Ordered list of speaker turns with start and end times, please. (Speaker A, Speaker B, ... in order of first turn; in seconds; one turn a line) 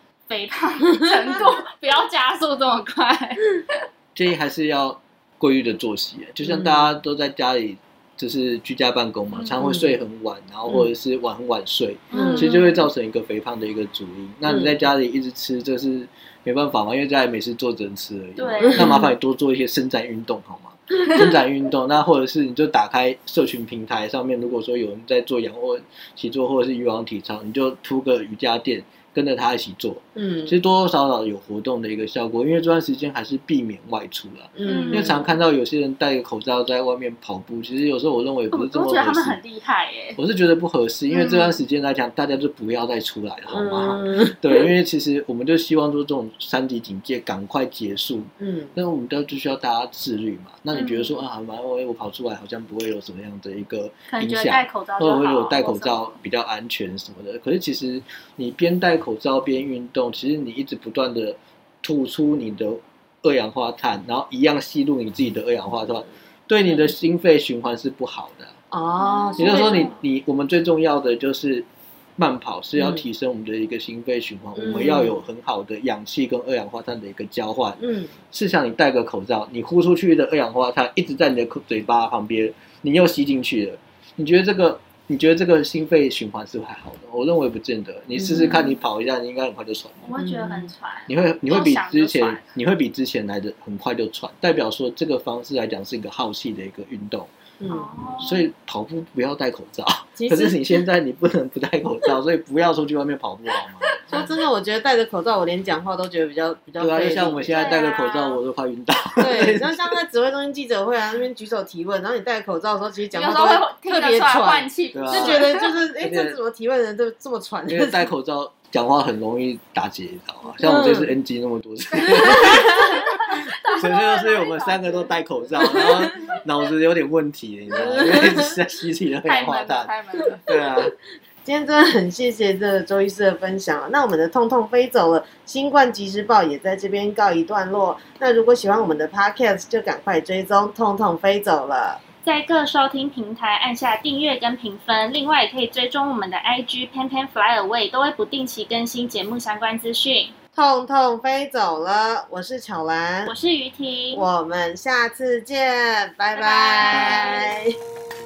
Speaker A: 0.3-3.9
Speaker B: 4.1-39.4
Speaker C: 6.4-6.9
Speaker A: 9.3-9.7
Speaker C: 9.6-9.9
Speaker A: 12.1-12.9
Speaker C: 12.1-12.5
Speaker A: 18.4-19.0
Speaker C: 18.6-19.1
Speaker C: 30.1-30.5
Speaker C: 34.6-35.3
Speaker A: 34.6-35.2
Speaker A: 38.5-40.2
Speaker B: 40.2-68.5
Speaker A: 41.1-41.6
Speaker C: 43.5-44.6
Speaker C: 48.4-48.7
Speaker A: 50.7-51.2
Speaker A: 54.1-56.2
Speaker C: 68.7-69.9
Speaker A: 69.0-70.0
Speaker B: 69.4-90.1
Speaker C: 72.8-73.0
Speaker C: 74.5-75.1
Speaker C: 77.8-78.2
Speaker C: 88.1-88.5
Speaker A: 88.4-88.7
Speaker A: 90.0-92.5
Speaker C: 90.2-90.7
Speaker B: 91.1-97.3
Speaker C: 97.6-97.9
Speaker A: 97.7-98.5
Speaker B: 98.2-104.0
Speaker C: 100.2-100.8
Speaker C: 104.0-107.7
Speaker B: 106.8-109.9
Speaker A: 107.4-108.4
Speaker C: 109.2-118.1
Speaker A: 113.1-115.8
Speaker B: 114.9-116.4
Speaker B: 117.7-123.1
Speaker C: 120.5-121.1
Speaker A: 122.9-125.9
Speaker B: 123.7-130.9
Speaker C: 127.7-128.5
Speaker A: 129.2-130.4
Speaker C: 131.4-142.0
Speaker A: 142.2-150.3
Speaker C: 150.5-153.3
Speaker A: 153.2-154.2
Speaker C: 154.1-157.7
Speaker A: 156.3-157.5